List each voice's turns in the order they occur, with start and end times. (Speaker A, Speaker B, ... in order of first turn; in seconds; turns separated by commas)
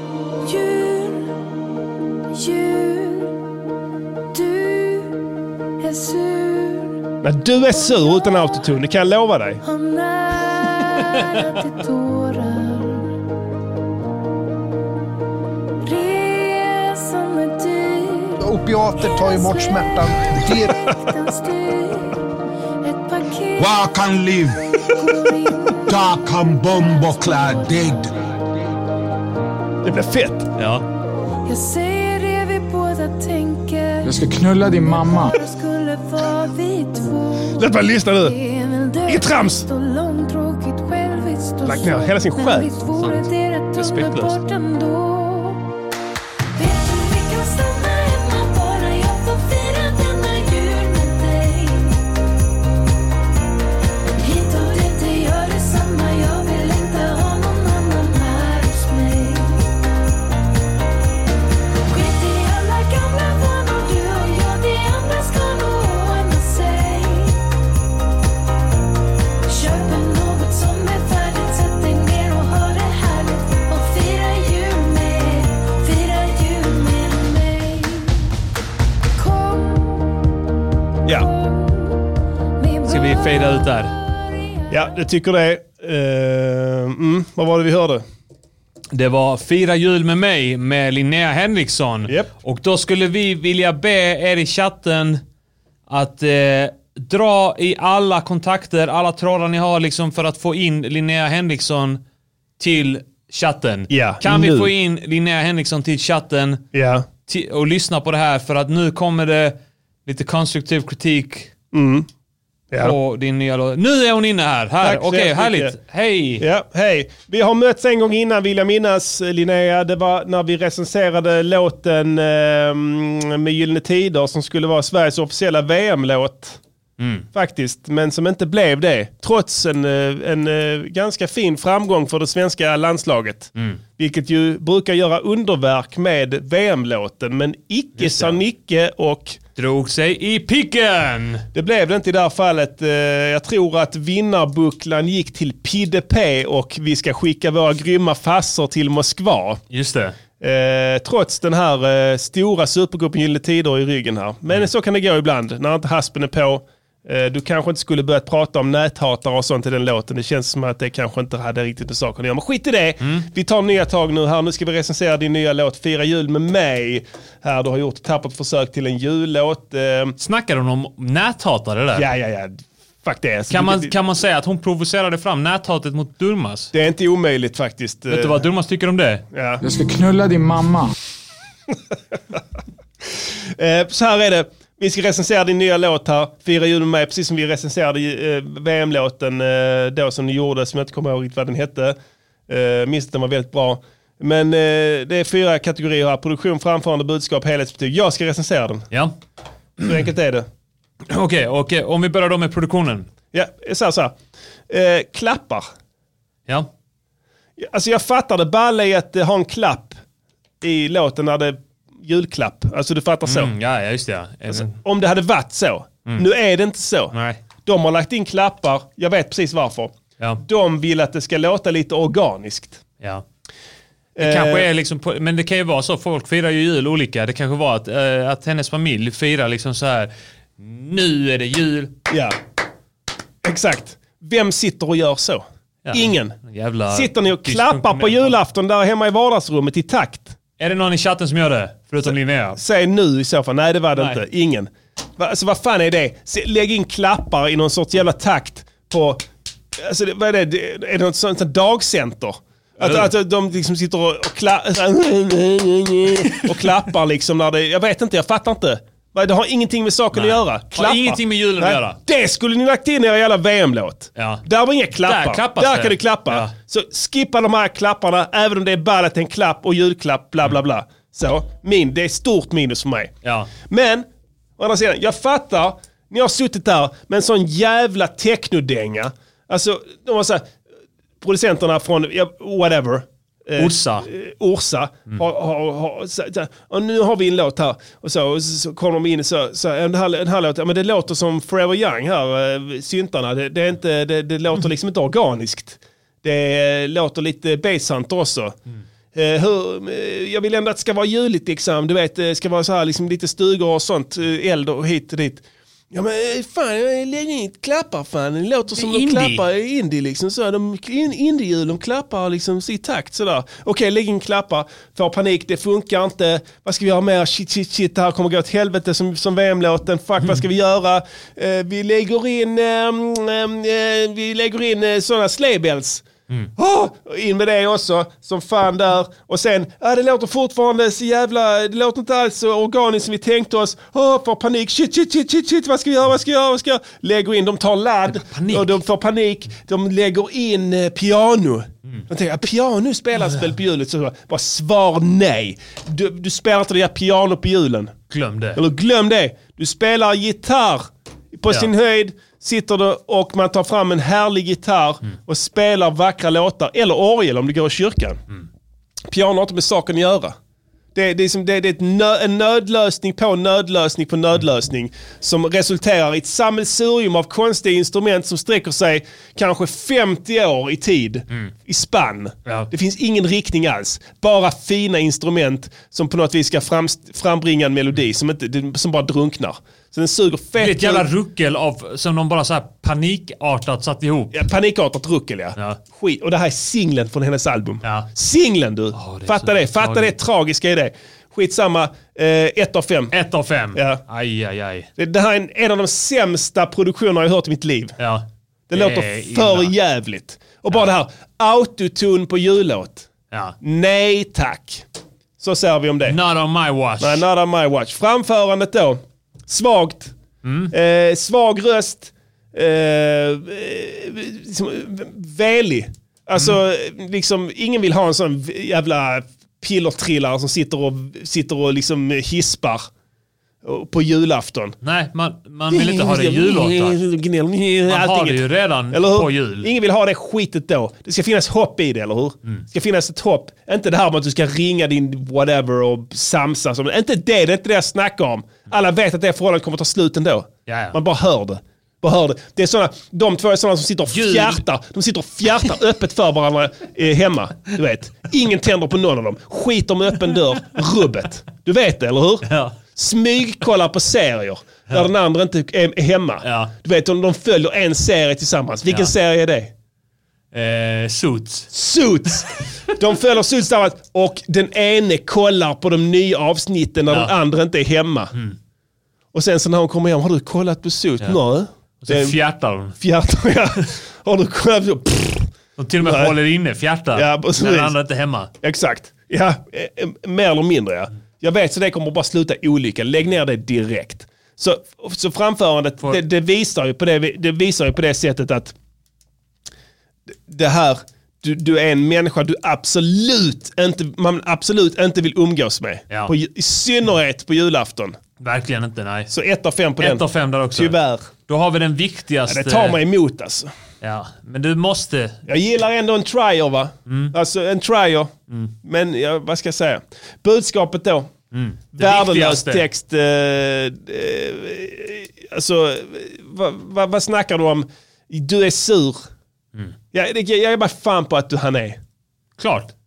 Speaker A: 0.4-1.4, Speaker A: 2.3-3.4, Speaker A: 4.3-5.2, Speaker A: 5.8-7.0, Speaker B: 7.2-9.6, Speaker A: 9.6-13.1, Speaker A: 15.8-18.4, Speaker C: 18.4-20.7, Speaker A: 19.0-20.1, Speaker A: 20.9-22.2, Speaker A: 22.8-23.7, Speaker D: 23.6-24.6, Speaker A: 25.0-25.8, Speaker D: 25.8-28.1, Speaker B: 29.8-30.5, Speaker E: 30.6-30.8, Speaker A: 31.5-34.0, Speaker F: 34.0-35.3, Speaker A: 35.3-45.6, Speaker B: 37.6-38.4, Speaker B: 39.0-39.7, Speaker B: 41.6-42.7, Speaker E: 43.0-44.4, Speaker A: 46.5-52.0, Speaker A: 54.2-59.6, Speaker A: 61.9-67.4, Speaker A: 69.5-78.3, Speaker A: 79.1-79.9, Speaker A: 82.6-83.6, Speaker E: 82.8-83.9, Speaker B: 84.7-88.0, Speaker E: 88.9-95.2, Speaker E: 95.9-102.0, Speaker E: 102.6-106.6, Speaker B: 103.9-104.7, Speaker B: 106.7-107.1, Speaker E: 107.3-111.5, Speaker B: 111.7-112.1, Speaker E: 112.8-116.5, Speaker B: 114.8-115.8, Speaker B: 116.4-126.6, Speaker E: 127.0-127.2, Speaker B: 127.3-139.4, Speaker E: 133.6-133.8, Speaker E: 138.0-138.4, Speaker E: 139.6-141.4, Speaker B: 141.5-149.6, Speaker E: 149.7-150.2, Speaker B: 150.4-170.2, Speaker E: 170.2-172.1, Speaker B: 171.9-173.9, Speaker E: 173.5-176.7, Speaker B: 176.7-178.4, Speaker E: 178.1-179.2, Speaker B: 179.3-179.6, Speaker F: 179.6-180.9, Speaker B: 183.2-192.0, Speaker B: 192.5-198.8, Speaker B: 199.8-200.5, Speaker E: 201.1-203.1, Speaker B: 203.3-204.2, Speaker B: 204.7-205.7, Speaker B: 207.6-210.0, Speaker B: 210.6-213.5, Speaker E: 213.2-214.8, Speaker B: 214.5-222.8, Speaker E: 217.1-217.4, Speaker B: 224.2-224.7, Speaker E: 224.2-231.9, Speaker B: 232.1-232.4, Speaker B: 233.4-236.4, Speaker E: 235.8-238.3, Speaker B: 236.9-240.3, Speaker E: 240.6-242.6, Speaker B: 242.1-274.1, Speaker E: 252.8-253.1, Speaker E: 260.1-262.0, Speaker E: 264.1-264.4, Speaker E: 265.0-266.5, Speaker E: 273.2-273.5, Speaker B: 274.6-280.5, Speaker B: 281.2-298.6, Speaker E: 283.6-284.1, Speaker B: 299.1-347.9, Speaker E: 308.8-309.4, Speaker E: 338.1-338.8, Speaker E: 348.1-348.6, Speaker B: 348.5-358.2, Speaker B: 359.1-360.4, Speaker B: 360.9-381.1, Speaker E: 380.6-384.4, Speaker B: 384.3-393.1, Speaker E: 388.9-390.1, Speaker E: 393.1-394.9, Speaker B: 393.7-394.0, Speaker B: 395.0-398.0, Speaker E: 398.0-399.7, Speaker B: 398.7-403.1, Speaker B: 403.6-404.8, Speaker B: 405.4-406.2, Speaker E: 406.1-407.2, Speaker B: 407.0-410.1, Speaker E: 410.4-410.7, Speaker B: 410.7-422.9, Speaker B: 423.6-424.8, Speaker E: 424.8-427.0, Speaker B: 425.7-459.7, Speaker E: 427.9-429.7, Speaker E: 440.7-440.9, Speaker E: 444.1-444.6, Speaker E: 452.5-452.7, Speaker E: 456.4-456.7, Speaker E: 460.5-461.7, Speaker B: 461.7-468.3, Speaker B: 469.3-472.4, Speaker E: 472.0-472.9, Speaker B: 473.0-476.4, Speaker E: 475.8-478.5, Speaker B: 477.1-478.0, Speaker B: 478.6-488.7, Speaker B: 490.3-498.2, Speaker E: 498.4-499.3, Speaker B: 499.3-501.3, Speaker E: 500.0-500.9, Speaker E: 501.5-503.0, Speaker B: 502.5-503.7, Speaker E: 504.0-505.4, Speaker B: 505.5-511.3, Speaker E: 507.1-507.3, Speaker E: 511.5-512.8, Speaker B: 511.9-519.3, Speaker B: 520.1-522.0, Speaker E: 522.6-522.9